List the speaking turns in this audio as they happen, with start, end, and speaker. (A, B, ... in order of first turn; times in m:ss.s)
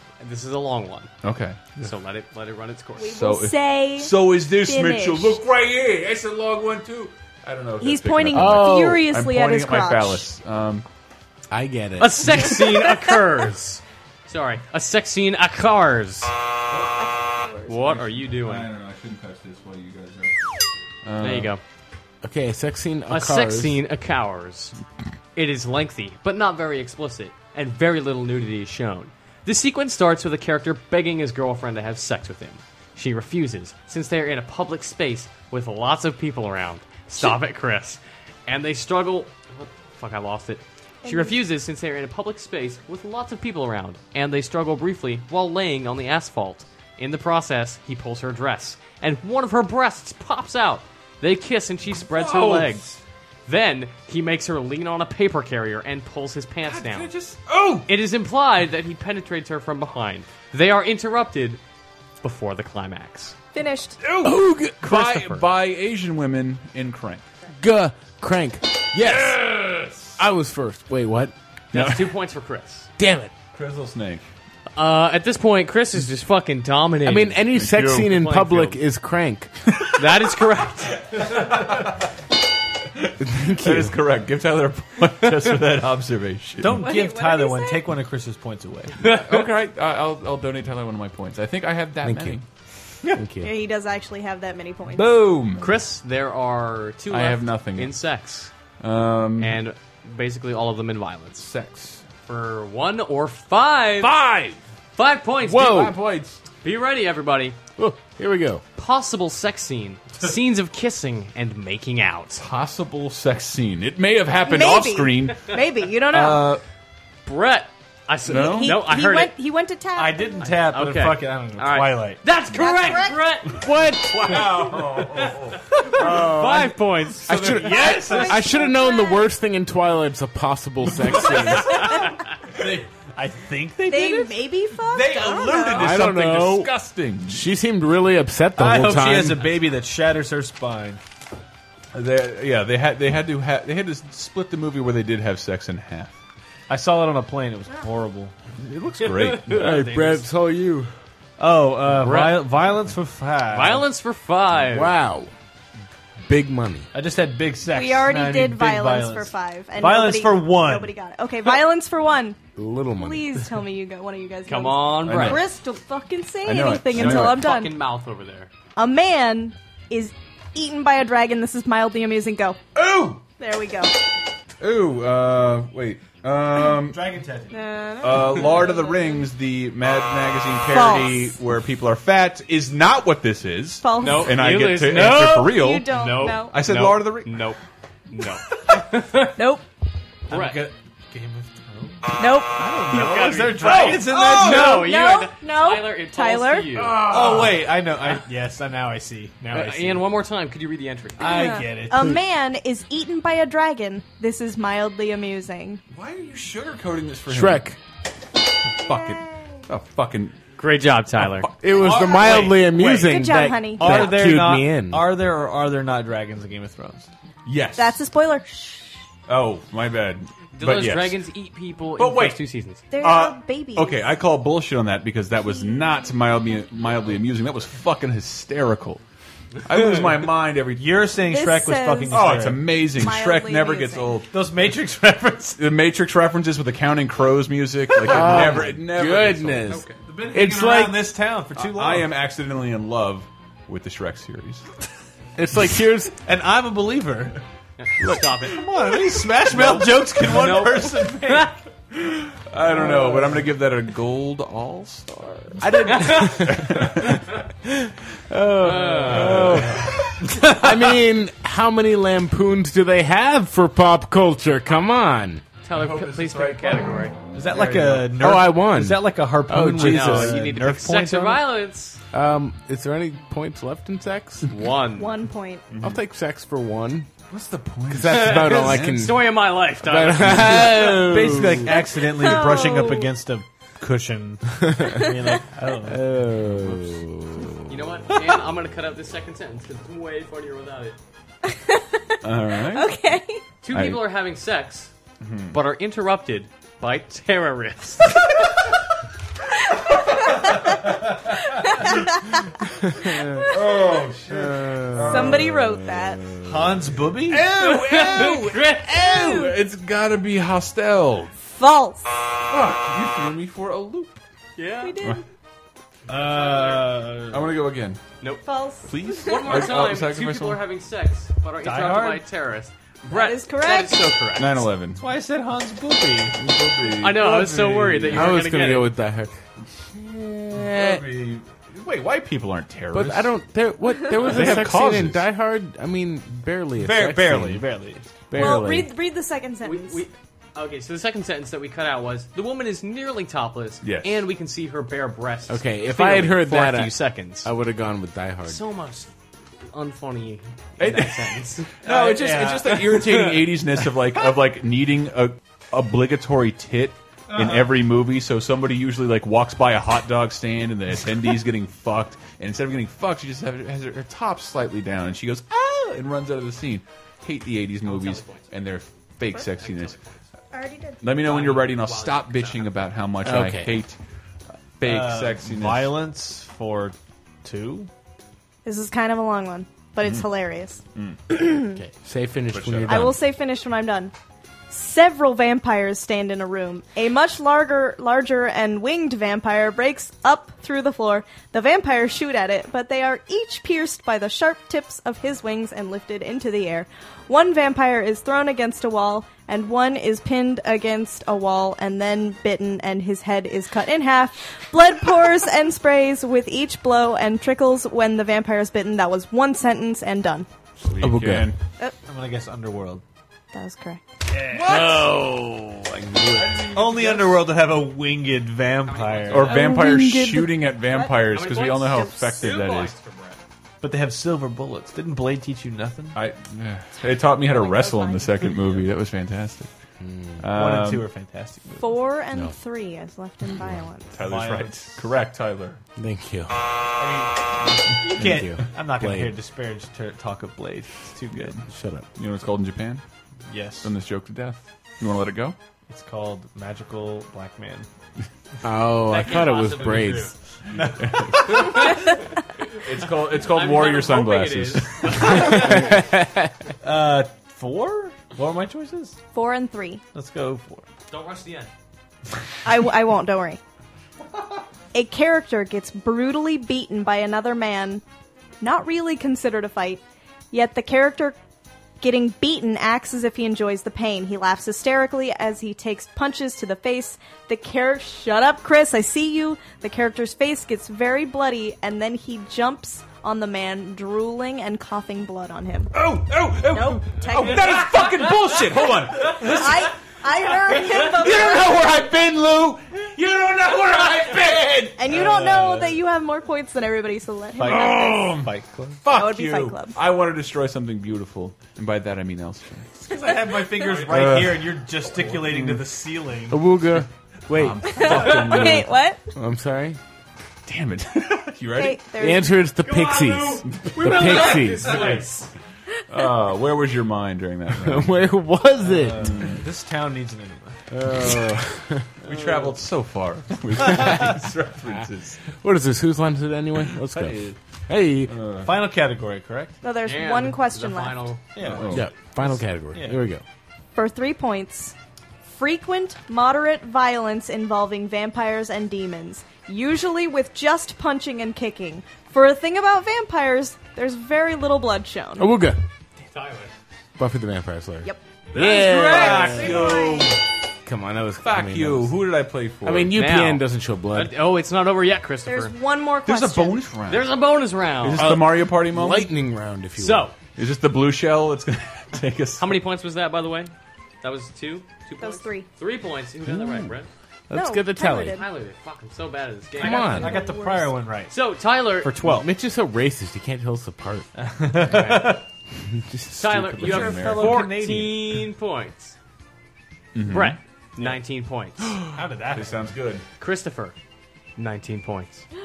0:00.2-0:01.1 A
0:01.2-0:01.7 B
0:01.8-0:03.2 A
0:03.0-0:05.4 C
0:03.1-0:10.9 B
0:07.8-0:10.2 C
0:08.3-0:09.1 D
0:11.5-0:12.7 D
0:12.0-0:16.3 A
0:16.7-0:17.0 B
0:16.9-0:17.8 C
0:17.7-0:18.7 A
0:17.8-0:20.3 B
0:21.0-0:21.5 B
0:21.2-0:21.6 A
0:22.2-0:23.8 D
0:23.1-0:24.8 A
0:25.4-0:52.9 A
0:41.0-0:41.4 C
0:51.9-0:53.0 B
0:53.5-0:57.1 A
0:56.6-0:57.9 B
0:57.9-1:01.6 A
1:02.2-1:03.4 A
1:03.5-1:04.0 C
1:04.0-1:07.2 B
1:04.2-1:05.0 D
1:04.8-1:05.4 A
1:07.6-1:09.4 D
1:09.0-1:10.2 B
1:10.2-1:11.3 D
1:11.7-1:12.1 B
1:11.7-1:12.9 A
1:13.0-1:13.3 D
1:13.5-1:14.2 B
1:14.8-1:18.8 A
1:17.0-1:19.5 D
1:17.5-1:18.2 B
1:20.0-1:21.4 A
1:21.2-1:22.0 B
1:23.0-1:26.9 B
1:23.2-1:24.0 D
1:26.6-1:29.0 E
1:26.8-1:27.9 C
1:29.0-1:29.5 A
1:29.0-1:32.4 B
1:32.0-1:32.4 D
1:33.1-1:33.5 D
1:33.4-1:35.2 C
1:34.9-1:35.8 B
1:35.6-1:38.5 A
1:37.1-1:38.0 B
1:38.8-1:39.6 B
1:39.4-1:41.5 A
1:41.4-1:42.0 B
1:42.3-1:44.1 A
1:44.0-1:44.6 D
1:44.2-1:44.4 B
1:45.0-1:45.8 A
1:45.5-1:46.0 D
1:45.5-1:46.4 B
1:46.6-1:47.6 A
1:47.8-1:48.6 D
1:48.8-1:52.4 A
1:52.4-1:55.6 B
1:54.4-1:56.5 C
1:56.1-1:56.6 B
1:57.2-1:59.3 A
1:58.3-1:58.8 B
1:58.3-2:00.4 C
2:00.0-2:02.2 E
2:00.4-2:03.6 A
2:02.5-2:03.3 C
2:03.5-2:04.8 D
2:04.1-2:06.3 B
2:05.9-2:06.2 E
2:06.0-2:07.4 A
2:06.0-2:11.9 D
2:07.3-2:08.1 B
2:07.4-2:08.6 E
2:07.9-2:09.3 C
2:12.6-2:15.9 E
2:13.9-2:15.9 C
2:15.4-2:17.5 B
2:15.8-2:16.7 D
2:17.3-2:19.5 D
2:18.6-2:21.0 E
2:21.9-2:26.2 B
2:26.7-2:28.3 E
2:28.6-2:29.8 B
2:29.0-2:30.2 A
2:29.5-2:30.9 D
2:31.4-2:33.9 E
2:32.0-2:32.5 A
2:33.5-2:34.9 A
2:34.6-2:35.3 D
2:36.3-2:36.9 D
2:36.9-2:40.9 E
2:37.7-2:42.4 C
2:42.6-2:43.4 D
2:42.9-2:47.7 C
2:44.5-2:45.4 A
2:45.0-2:45.4 B
2:46.4-2:47.5 B
2:46.9-2:48.5 A
2:48.8-2:52.6 C
2:52.8-2:53.2 B
2:53.4-2:53.9 C
2:54.6-2:57.1 B
2:56.9-2:57.6 E
2:57.5-2:59.3 C
2:58.0-3:07.5 B
3:00.6-3:01.4 C
3:03.8-3:04.4 C
3:04.0-3:09.4 A
3:05.5-3:06.5 C
3:09.4-3:09.6 C
3:10.3-3:14.9 E
3:10.3-3:10.7 A
3:12.2-3:12.6 C
3:12.6-3:14.7 B
3:12.9-3:17.4 A
3:14.1-3:16.7 C
3:16.8-3:17.6 B
3:17.0-3:20.1 E
3:19.5-3:21.5 A
3:21.2-3:22.2 E
3:21.2-3:25.8 C
3:25.9-3:27.7 B
3:27.3-3:27.8 D
3:28.7-3:30.4 B
3:28.8-3:29.6 C
3:30.6-3:31.5 A
3:31.2-3:32.7 B
3:31.6-3:35.1 D
3:32.2-3:32.6 A
3:32.6-3:33.2 E
3:33.0-3:34.1 C
3:33.8-3:37.1 E
3:37.4-3:38.0 B
3:37.8-3:38.9 C
3:39.3-3:41.2 B
3:40.6-3:42.8 A
3:42.0-3:42.4 B
3:42.9-3:44.1 C
3:43.0-3:49.0 B
3:49.6-3:51.2 B
3:50.8-3:52.8 E
3:51.3-3:54.2 C
3:52.1-3:54.3 B
3:54.3-3:55.6 E
3:55.6-3:59.9 B
3:58.0-4:01.2 D
3:58.1-3:58.6 E
4:00.0-4:02.2 E
4:01.6-4:04.7 B
4:05.4-4:06.2 D
4:06.2-4:07.4 E
4:07.8-4:08.7 A
4:08.4-4:11.5 E
4:09.5-4:10.0 B
4:10.2-4:11.6 A
4:11.9-4:17.3 B
4:12.7-4:13.3 D
4:15.6-4:17.1 D
4:15.9-4:16.4 A
4:17.7-4:20.0 D
4:18.6-4:19.6 A
4:19.0-4:20.2 B
4:20.2-4:20.8 E
4:20.5-4:25.4 D
4:25.6-4:27.2 A
4:25.7-4:28.3 B
4:27.3-4:31.4 E
4:28.2-4:30.5 D
4:29.8-4:32.0 A
4:32.1-4:34.5 D
4:34.5-4:35.1 A
4:35.0-4:35.6 C
4:35.7-4:36.0 B
4:35.8-4:37.1 D
4:37.3-4:39.2 B
4:37.9-4:39.2 D
4:38.1-4:41.0 A
4:39.8-4:41.8 D
4:40.2-4:40.6 B
4:40.6-4:46.2 E
4:41.8-4:43.1 C
4:44.8-4:45.1 D
4:45.8-4:47.8 D
4:47.7-4:51.0 A
4:51.4-4:53.4 C
4:52.2-4:52.9 B
4:53.6-4:54.9 A
4:53.7-4:54.0 B
4:55.2-4:55.6 B
4:55.5-4:58.3 A
5:00.2-5:00.7 C
5:01.6-5:02.4 C
5:03.5-5:05.5 B
5:04.3-5:06.9 D
5:05.0-5:06.2 C
5:06.4-5:07.5 E
5:07.3-5:11.3 B
5:07.6-5:09.3 A
5:09.0-5:09.6 C
5:11.6-5:12.2 C
5:12.5-5:14.2 B
5:14.6-5:15.0 A
5:14.8-5:15.2 C
5:16.1-5:17.6 E
5:16.2-5:17.0 A
5:17.3-5:18.0 B
5:18.2-5:18.5 A
5:18.4-5:19.7 C
5:18.9-5:20.6 B
5:19.1-5:24.7 A
5:21.6-5:22.2 E
5:23.1-5:24.1 C
5:24.4-5:25.0 B
5:25.0-5:26.4 E
5:26.4-5:28.5 B
5:27.0-5:28.9 A
5:28.1-5:29.4 D
5:29.9-5:31.0 D
5:30.5-5:33.3 B
5:32.9-5:37.7 D
5:34.1-5:35.2 B
5:36.8-5:38.0 E
5:38.3-5:38.9 D
5:38.4-5:40.0 C
5:39.6-5:47.5 A
5:43.8-5:44.2 B
5:45.5-5:48.6 D
5:48.5-5:49.1 A
5:49.7-5:51.7 A
5:50.8-6:10.0 B
5:51.8-5:53.2 E
5:57.3-5:57.7 E
6:07.8-6:08.5 A
6:09.3-6:10.2 A
6:10.5-6:11.0 C
6:11.0-6:14.0 B
6:11.2-6:12.9 A
6:13.2-6:13.8 D
6:14.8-6:16.0 B
6:14.8-6:17.9 E
6:18.6-6:21.8 C
6:21.0-6:21.2 B
6:21.8-6:23.2 D
6:22.5-6:23.2 B
6:22.9-6:24.1 C
6:24.7-6:50.5 C
6:50.8-6:51.6 B
6:51.0-6:51.5 D
6:52.1-6:53.0 E
6:53.5-6:54.0 C
6:54.3-6:55.2 E
6:54.5-6:55.4 B
6:55.9-6:59.6 E
6:56.3-6:57.5 B
6:58.8-6:59.6 A
6:59.3-7:03.0 B
6:59.4-7:00.6 C
7:01.0-7:03.4 A
7:03.8-7:06.2 E
7:06.2-7:09.7 B
7:07.4-7:08.6 C
7:10.0-7:10.5 D
7:10.4-7:11.1 B
7:10.5-7:12.0 E
7:11.8-7:14.1 C
7:14.1-7:15.8 B
7:14.2-7:15.0 E
7:16.0-7:16.6 D
7:17.0-7:21.6 E
7:18.2-7:19.3 D
7:21.3-7:21.6 B
7:21.7-7:22.1 D
7:22.2-7:23.0 B
7:23.5-7:23.9 E
7:23.8-7:25.6 B
7:25.9-7:27.9 E
7:28.6-7:30.3 D
7:29.1-7:30.3 A
7:30.7-7:31.8 E
7:31.0-7:32.0 B
7:31.5-7:32.0 A
7:32.8-7:35.7 B
7:33.4-7:35.9 A
7:35.4-7:36.5 D
7:36.8-7:39.2 E
7:39.3-7:40.0 C
7:40.1-7:40.8 E
7:41.1-7:41.7 A
7:42.6-7:43.6 C
7:44.9-7:48.0 C
7:48.6-7:51.4 C
7:52.0-8:05.9 C
8:05.9-8:09.9 B
8:06.7-8:08.0 C
8:09.3-8:11.8 C
8:10.7-8:15.0 B
8:15.0-8:18.1 C
8:15.1-8:16.0 E
8:17.6-8:19.0 E
8:17.6-8:23.0 B
8:19.1-8:20.0 C
8:23.1-8:26.6 E
8:23.9-8:24.1 A
8:23.9-8:25.8 B
8:26.5-8:28.8 D
8:27.5-8:28.9 B
8:27.9-8:29.2 C
8:29.4-8:30.0 D
8:30.7-8:32.0 B
8:31.8-8:32.6 C
8:32.2-8:35.1 D
8:32.8-8:35.5 A
8:33.7-8:35.3 B
8:36.1-8:38.2 B
8:37.8-8:39.4 D
8:38.9-8:40.8 E
8:39.2-8:39.6 B
8:40.9-8:42.1 D
8:42.2-8:45.4 B
8:44.9-8:48.3 D
8:47.0-8:47.6 B
8:48.3-8:48.8 B
8:48.6-8:49.8 E
8:49.8-8:51.3 C
8:50.0-8:51.4 A
8:51.6-8:53.2 E
8:51.6-8:52.1 B
8:51.9-8:53.4 D
8:54.0-8:54.9 C
8:55.5-9:05.5 C
9:05.4-9:05.8 D
9:06.2-9:06.7 A
9:07.2-9:09.9 D
9:08.5-9:10.4 B
9:08.9-9:10.3 C
9:09.1-9:09.6 A
9:10.8-9:12.2 D
9:11.4-9:13.2 B
9:12.8-9:14.3 D
9:13.1-9:15.8 A
9:15.5-9:16.8 C
9:16.3-9:17.3 B
9:17.1-9:18.3 A
9:18.0-9:19.4 B
9:18.2-9:20.3 D
9:20.0-9:20.4 A
9:20.6-9:22.8 B
9:22.6-9:27.1 A
9:25.2-9:25.7 C
9:27.5-9:28.4 D
9:27.5-9:28.4 C
9:28.3-9:30.3 A
9:29.8-9:30.4 D
9:29.8-9:31.4 E
9:30.2-9:30.9 C
9:31.3-9:32.2 A
9:32.0-9:32.5 E
9:32.2-9:34.3 D
9:34.4-9:35.4 E
9:34.9-9:35.3 A
9:35.9-9:37.2 D
9:36.3-9:39.2 A
9:36.4-9:37.7 B
9:36.9-9:38.5 E
9:40.2-9:40.6 B
9:40.3-9:41.9 A
9:41.9-9:43.2 B
9:42.1-9:42.9 E
9:43.4-9:44.0 A
9:44.6-9:45.4 A